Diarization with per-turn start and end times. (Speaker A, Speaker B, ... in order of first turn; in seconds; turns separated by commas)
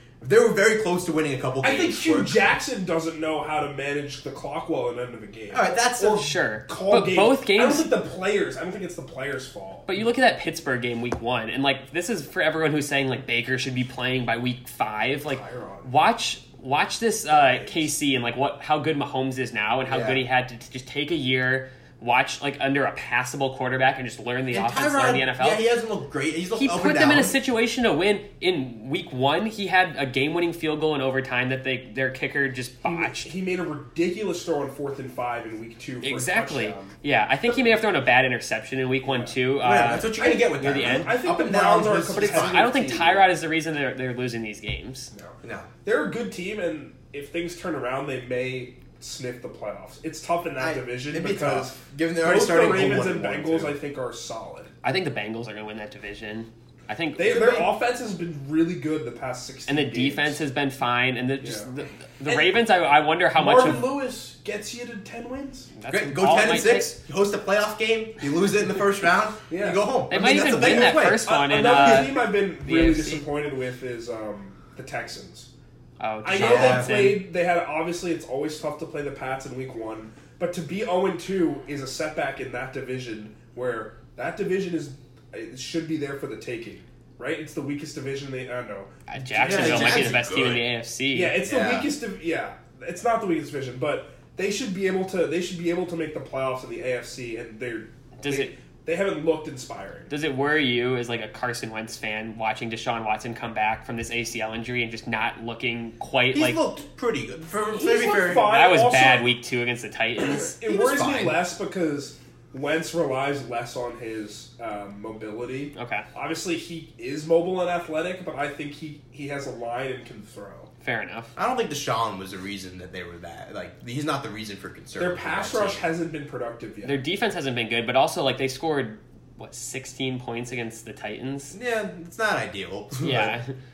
Speaker A: 0.2-2.5, Speaker B: 1.6-9.9, Speaker A: 5.5-6.2, Speaker C: 6.0-7.9, Speaker C: 9.9-25.7, Speaker B: 15.3-15.9, Speaker B: 17.3-17.9, Speaker A: 19.9-20.2, Speaker A: 24.5-27.4, Speaker C: 26.5-33.3, Speaker B: 32.8-36.9, Speaker C: 36.0-41.2, Speaker B: 39.0-39.4, Speaker A: 39.6-42.7, Speaker B: 40.2-43.3, Speaker C: 42.1-45.1, Speaker B: 45.1-54.7, Speaker A: 45.4-45.7, Speaker A: 50.6-53.8, Speaker C: 54.8-57.7, Speaker B: 57.1-60.4, Speaker C: 59.7-63.9, Speaker B: 61.4-61.7, Speaker B: 62.3-62.6, Speaker B: 63.3-65.7, Speaker C: 65.7-66.9, Speaker A: 65.9-72.1, Speaker B: 69.5-75.5, Speaker C: 70.1-73.2, Speaker C: 76.0-77.3, Speaker B: 76.2-90.3, Speaker A: 76.3-77.0, Speaker C: 89.1-91.4, Speaker A: 89.3-90.7, Speaker B: 91.1-100.1, Speaker A: 91.4-91.9, Speaker C: 98.2-98.5, Speaker C: 100.1-106.6, Speaker A: 106.3-108.6, Speaker B: 107.7-109.3, Speaker C: 108.3-110.6, Speaker B: 110.2-120.7, Speaker A: 110.7-111.4, Speaker C: 115.7-116.1, Speaker C: 120.8-121.3, Speaker A: 121.3-125.9, Speaker B: 125.0-127.0, Speaker C: 126.8-131.6, Speaker A: 131.5-133.4, Speaker C: 133.0-133.5